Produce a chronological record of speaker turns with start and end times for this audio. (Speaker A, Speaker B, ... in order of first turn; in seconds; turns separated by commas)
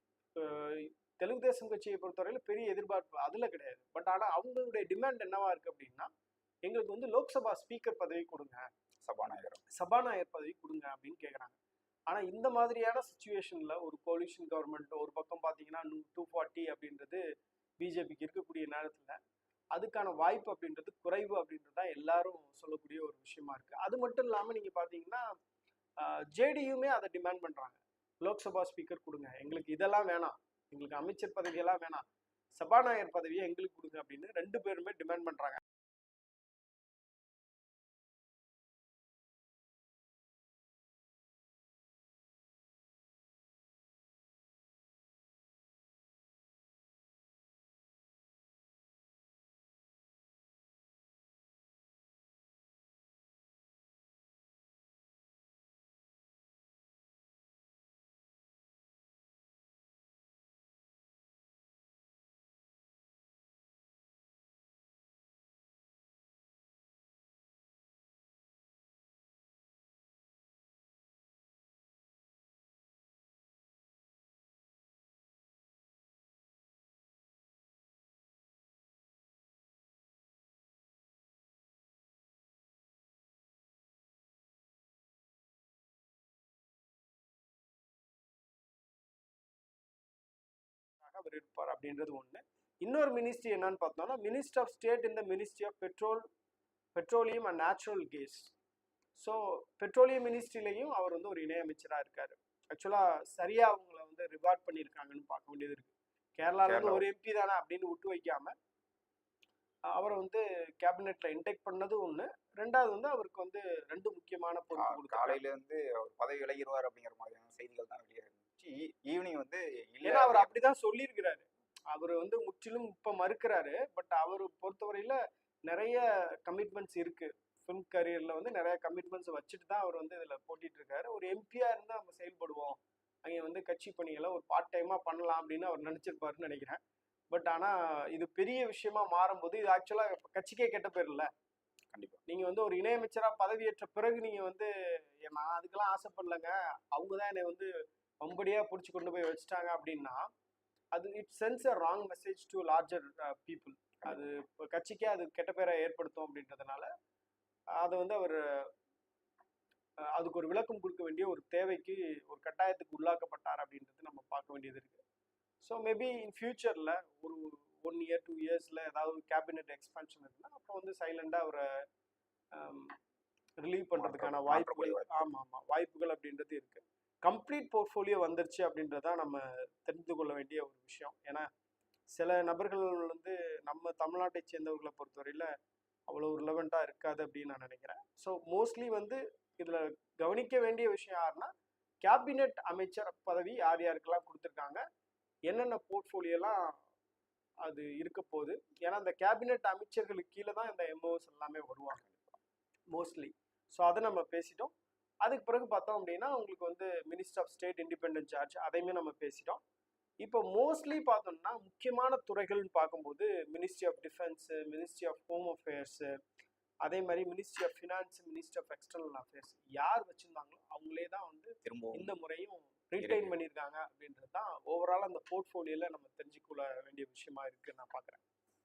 Speaker A: 0.3-6.1, Speaker A: 6.7-8.7, Speaker B: 9.0-9.6, Speaker A: 9.8-11.5, Speaker A: 12.1-17.2, Speaker A: 17.8-19.2, Speaker A: 19.7-25.3, Speaker A: 26.0-32.0, Speaker A: 32.6-35.6, Speaker A: 91.0-96.2, Speaker A: 96.9-98.5, Speaker A: 99.2-108.5, Speaker B: 106.7-107.0, Speaker A: 110.0-115.4, Speaker B: 114.8-120.5, Speaker A: 120.0-136.8, Speaker A: 137.3-141.3, Speaker B: 141.9-142.2, Speaker A: 142.3-144.7, Speaker A: 145.2-147.7, Speaker A: 148.2-150.2, Speaker A: 150.9-156.9, Speaker A: 157.8-158.7, Speaker A: 160.1-165.0, Speaker A: 165.6-171.7, Speaker A: 172.5-172.9, Speaker A: 173.6-181.5, Speaker B: 173.9-175.3, Speaker A: 182.2-185.5, Speaker A: 186.1-191.5, Speaker A: 192.0-194.8, Speaker A: 195.5-196.8, Speaker A: 197.6-202.1, Speaker B: 202.0-202.4, Speaker A: 202.9-204.7, Speaker A: 205.2-209.6, Speaker A: 210.2-216.1, Speaker A: 216.8-228.2, Speaker B: 221.6-222.1, Speaker B: 223.0-223.3